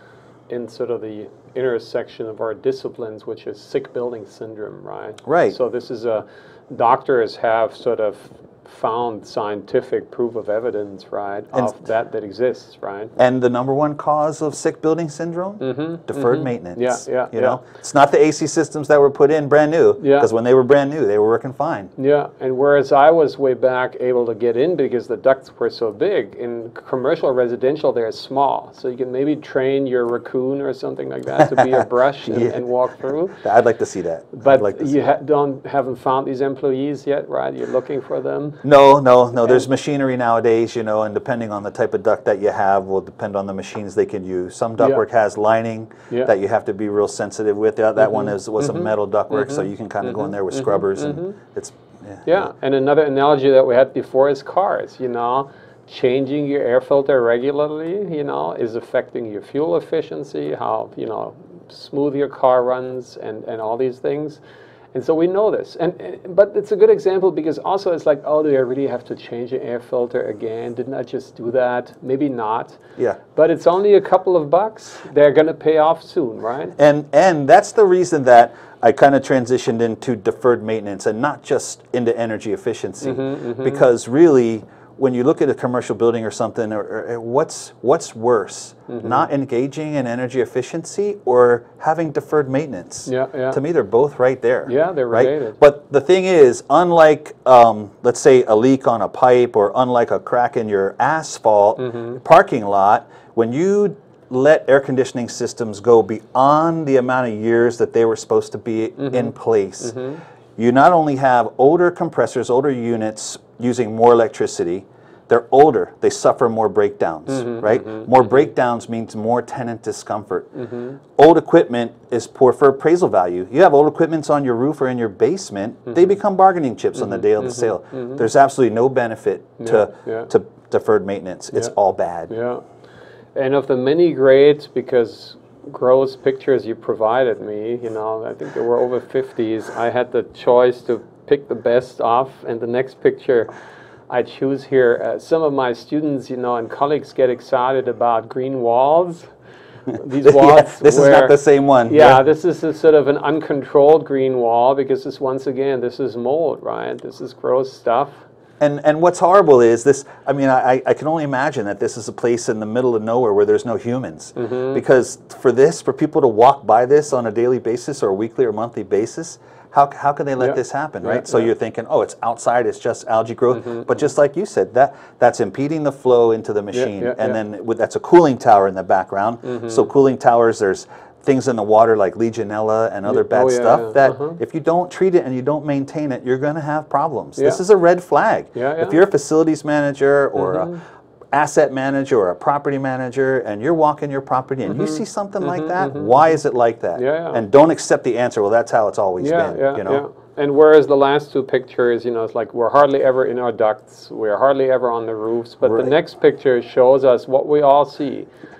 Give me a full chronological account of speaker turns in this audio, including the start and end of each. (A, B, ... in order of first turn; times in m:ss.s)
0:00.5-0:13.1 A
0:05.2-0:05.6 B
0:11.5-0:11.8 B
0:13.2-0:21.9 B
0:15.6-0:17.6 A
0:20.0-0:20.3 A
0:22.0-0:33.4 A
0:31.4-0:32.6 B
0:33.4-0:35.0 B
0:34.4-0:38.6 A
0:38.6-0:52.5 B
0:48.0-0:51.4 A
0:52.2-1:04.4 A
1:04.9-1:12.8 A
1:13.3-1:16.8 A
1:16.8-1:50.0 B
1:23.0-1:23.8 A
1:28.9-1:29.2 A
1:33.1-1:33.6 A
1:34.7-1:35.6 A
1:41.8-1:42.2 A
1:49.0-1:49.3 A
1:49.8-1:50.2 A
1:50.6-2:00.5 B
1:57.3-1:58.3 A
2:00.6-2:01.0 A
2:01.2-2:12.3 B
2:07.0-2:08.2 A
2:09.6-2:10.3 A
2:12.3-2:12.6 A
2:13.3-2:23.5 A
2:24.1-2:29.3 A
2:29.9-2:38.2 A
2:30.2-2:32.2 B
2:38.6-3:10.7 B
2:44.4-2:44.8 A
2:50.4-2:51.5 A
2:53.5-2:53.8 A
2:56.7-2:57.4 A
2:59.4-2:59.9 A
3:03.1-3:04.4 A
3:08.5-3:09.0 A
3:10.4-3:10.8 A
3:11.3-3:20.0 B
3:14.8-3:16.1 A
3:17.0-3:17.4 A
3:19.2-3:28.3 A
3:25.6-3:25.9 B